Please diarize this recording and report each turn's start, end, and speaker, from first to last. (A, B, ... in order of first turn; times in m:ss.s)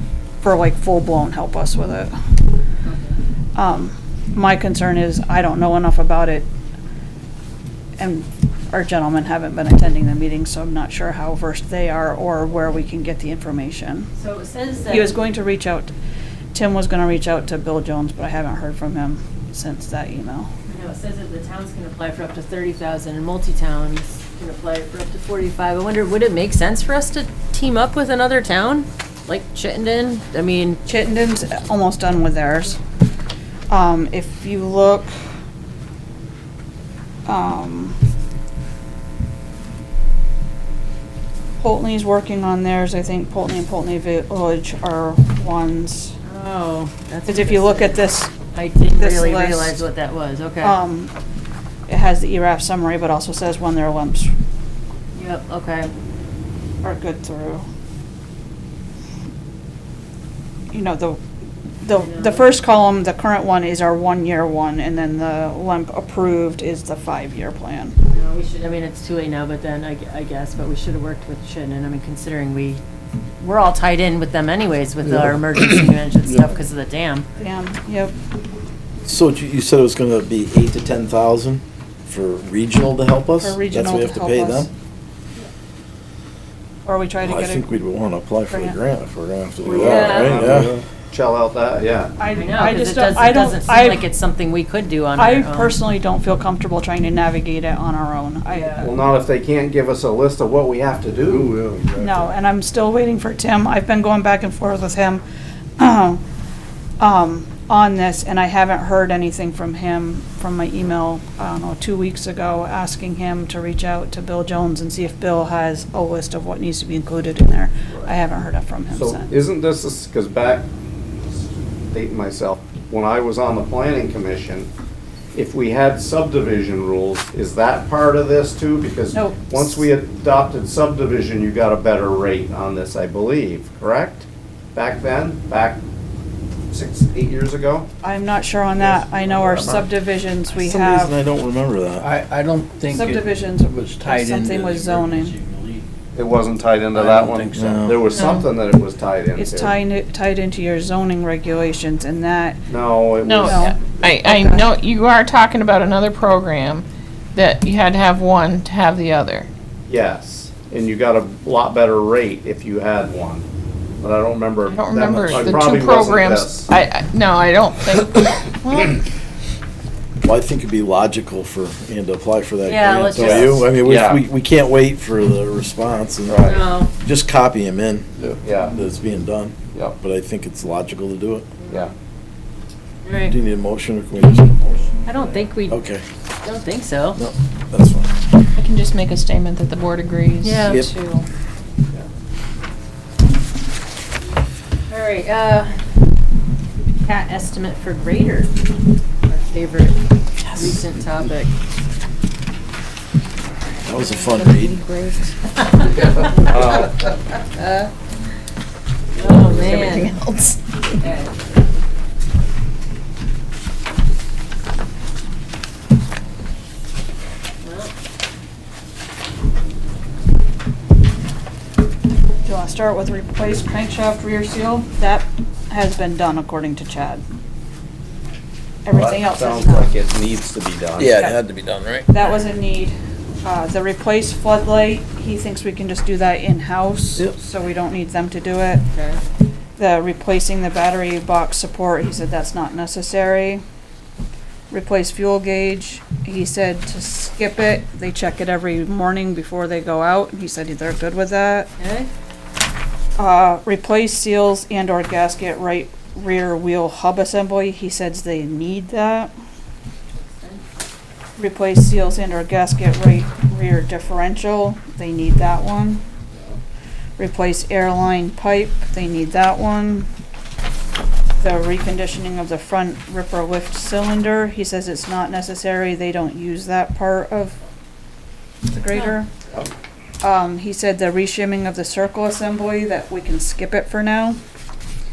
0:00.4-0:02.1 A
0:02.8-0:03.2 B
0:03.5-0:06.5 A
0:08.0-0:14.1 A
0:14.2-0:15.2 B
0:14.9-0:15.9 A
0:16.5-0:20.5 A
0:20.7-0:30.8 B
0:30.9-0:32.8 A
0:33.7-0:35.1 A
0:37.3-0:38.0 A
0:41.6-0:46.2 A
0:46.2-0:48.0 B
0:47.3-0:48.4 A
0:48.5-0:50.8 B
0:48.9-0:49.8 A
0:50.6-0:51.1 A
0:51.9-0:54.3 A
0:55.1-0:55.9 B
0:56.8-0:57.6 A
1:00.7-1:01.2 A
1:01.8-1:08.0 A
1:02.0-1:02.5 B
1:08.1-1:12.8 B
1:13.4-1:17.3 B
1:17.4-1:18.1 A
1:19.0-1:24.7 C
1:23.4-1:24.7 A
1:26.8-1:27.7 A
1:27.2-1:30.7 C
1:28.5-1:28.8 A
1:29.6-1:30.8 D
1:29.7-1:32.1 E
1:29.7-1:30.4 B
1:32.2-1:34.0 A
1:32.3-1:35.8 B
1:35.2-1:38.9 A
1:38.5-1:38.8 B
1:38.8-1:41.5 E
1:41.2-1:42.2 D
1:42.0-1:45.2 A
1:45.8-1:46.2 A
1:47.0-1:59.3 A
1:58.9-2:00.7 E
2:01.9-2:04.7 E
2:05.3-2:15.8 E
2:09.1-2:09.9 A
2:16.7-2:17.9 E
2:18.0-2:21.1 A
2:18.8-2:19.9 E
2:20.6-2:22.1 C
2:22.0-2:25.8 D
2:22.8-2:25.3 A
2:26.1-2:29.8 E
2:26.9-2:28.2 D
2:27.6-2:28.1 C
2:28.1-2:28.5 F
2:29.4-2:32.7 A
2:32.7-2:34.0 E
2:33.2-2:34.7 A
2:33.2-2:39.5 F
2:39.9-2:43.4 E
2:44.0-2:46.7 E
2:44.7-2:49.0 F
2:50.2-3:01.5 C
2:52.6-2:53.7 B
2:53.1-2:54.2 E
2:56.2-2:56.7 E
2:56.4-2:56.9 B
2:58.2-2:58.8 E
3:01.6-3:01.9 B
3:03.0-3:03.3 B
3:03.3-3:04.6 C
3:05.0-3:05.8 B
3:05.7-3:06.0 C
3:06.4-3:07.2 B
3:07.1-3:08.2 C
3:08.6-3:11.2 F
3:10.4-3:10.8 B
3:14.9-3:15.9 B
3:16.9-3:18.6 B
3:19.3-3:21.5 B
3:23.8-3:24.8 C
3:24.0-3:25.3 F
3:25.7-3:26.9 B
3:26.0-3:27.0 E
3:27.6-3:27.9 B
3:29.2-3:30.1 B
3:29.4-3:30.6 F
3:31.0-3:31.3 B
3:37.6-3:37.9 B
3:42.4-3:47.2 A
3:48.8-3:49.9 A
3:48.9-3:51.2 E
3:51.0-3:52.1 C
3:52.1-3:58.8 A
3:58.9-3:59.2 B
3:59.8-4:03.6 A
4:04.7-4:11.7 A
4:11.8-4:12.1 B
4:13.2-4:19.3 A
4:20.1-4:20.6 B
4:21.4-4:26.0 A
4:27.2-4:30.1 A
4:31.4-4:37.6 A
4:38.7-4:39.3 A
4:38.9-4:39.2 B
4:40.2-4:44.4 A